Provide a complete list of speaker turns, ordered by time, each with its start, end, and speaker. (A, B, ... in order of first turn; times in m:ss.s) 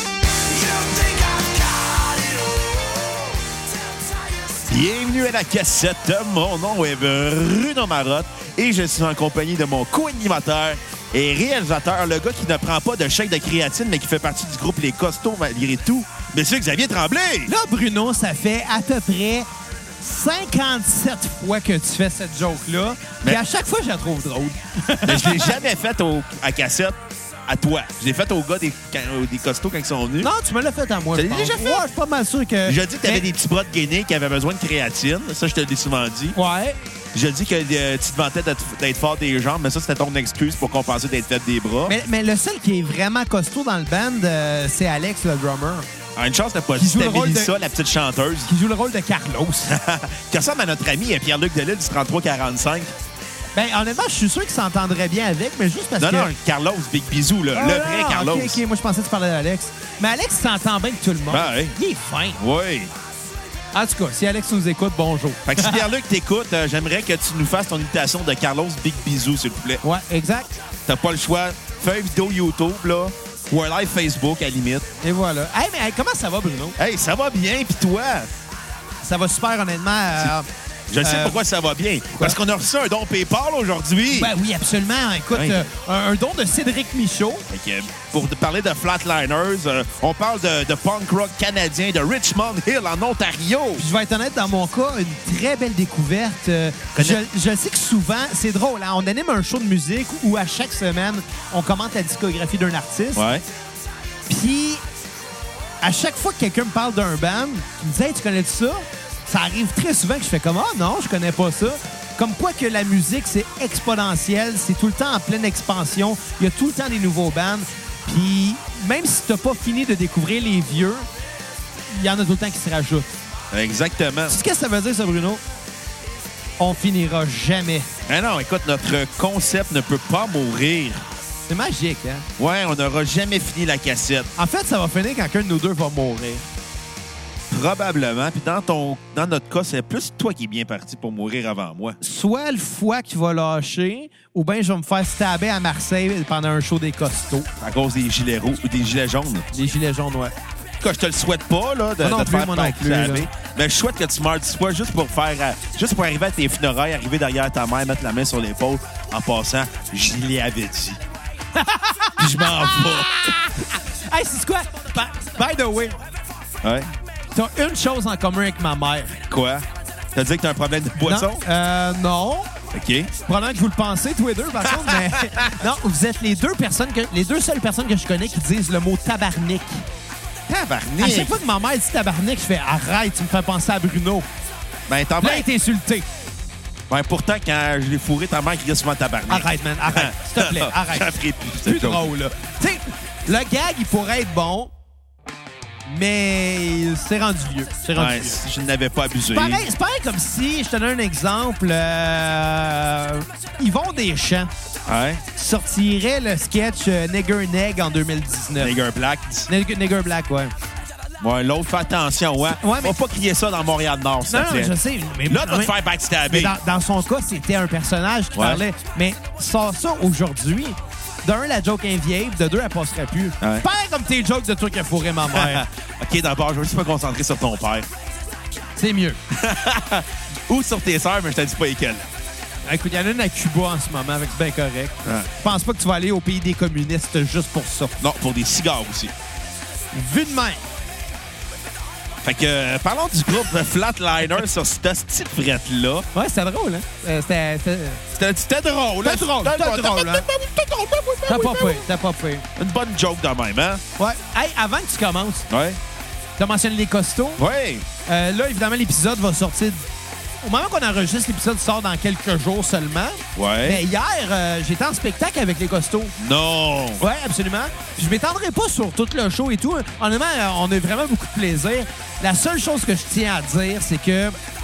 0:00.4-0:04.8 A
0:04.7-0:17.5 B
0:17.4-0:19.5 C
0:20.0-0:25.6 C
0:25.0-0:30.3 B
0:30.2-0:33.3 C
0:31.1-0:31.8 B
0:32.6-0:36.4 B
0:36.3-0:36.8 C
0:37.1-0:41.9 B
0:41.9-0:45.9 C
0:46.2-0:48.5 B
0:46.8-0:47.5 C
0:48.5-0:49.7 C
0:49.7-0:52.9 B
0:53.6-0:56.3 C
0:56.0-0:58.6 B
0:57.5-1:02.4 C
1:01.3-1:01.8 B
1:02.4-1:02.9 B
1:03.7-1:05.8 C
1:05.4-1:09.8 B
1:09.8-1:10.6 C
1:10.9-1:14.9 B
1:15.0-1:16.8 C
1:16.8-1:18.3 B
1:19.0-1:20.5 C
1:20.9-1:24.3 B
1:21.0-1:21.4 C
1:24.1-1:27.5 C
1:25.3-1:25.7 B
1:27.5-1:33.8 B
1:33.8-1:43.2 C
1:37.0-1:37.2 B
1:43.2-1:43.4 B
1:44.3-1:44.8 C
1:45.8-2:01.1 C
2:01.9-2:03.1 C
2:03.5-2:04.4 B
2:04.3-2:05.4 C
2:06.6-2:07.9 C
2:08.1-2:11.1 B
2:11.5-2:12.2 C
2:12.4-2:14.3 B
2:14.4-2:16.4 C
2:17.5-2:22.0 B
2:22.0-2:27.5 C
2:27.6-2:29.5 B
2:29.5-2:30.4 C
2:30.8-2:41.0 B
2:32.0-2:33.3 C
2:41.6-2:46.0 C
2:42.2-2:43.3 B
2:46.6-2:46.9 B
2:47.3-2:49.2 C
2:49.3-2:51.4 B
2:51.0-2:52.5 C
2:52.7-2:53.1 B
2:53.2-2:59.8 C
2:54.6-2:55.6 B
3:00.5-3:01.4 B
3:01.0-3:04.3 C
3:04.9-3:05.5 B
3:05.2-3:06.1 C
3:06.9-3:12.1 B
3:09.3-3:14.7 C
3:15.9-3:18.4 C
3:17.9-3:19.7 B
3:19.3-3:24.5 C
3:24.9-3:25.2 B
3:25.3-3:28.8 C
3:28.6-3:29.5 B
3:29.5-3:30.5 C
3:31.2-3:34.8 B
3:32.6-3:32.9 C
3:34.3-3:35.7 C
3:35.3-3:36.6 B
3:36.3-3:45.6 C
3:38.3-3:38.6 B
3:43.4-3:43.7 B
3:45.3-3:47.9 B
3:48.8-3:49.2 C
3:49.3-3:52.1 B
3:52.6-3:58.0 C
3:55.0-3:55.3 B
3:58.0-3:59.1 B
3:59.9-4:00.6 C
4:02.2-4:06.1 B
4:06.1-4:08.0 C
4:08.1-4:11.9 B
4:09.0-4:10.2 C
4:11.3-4:12.5 C
4:12.6-4:13.8 B
4:14.0-4:15.5 C
4:15.5-4:15.8 B
4:16.4-4:17.4 C
4:17.4-4:17.9 B
4:18.1-4:19.8 C
4:20.4-4:26.1 C
4:23.4-4:23.8 B
4:26.2-4:27.0 B
4:27.0-4:34.4 C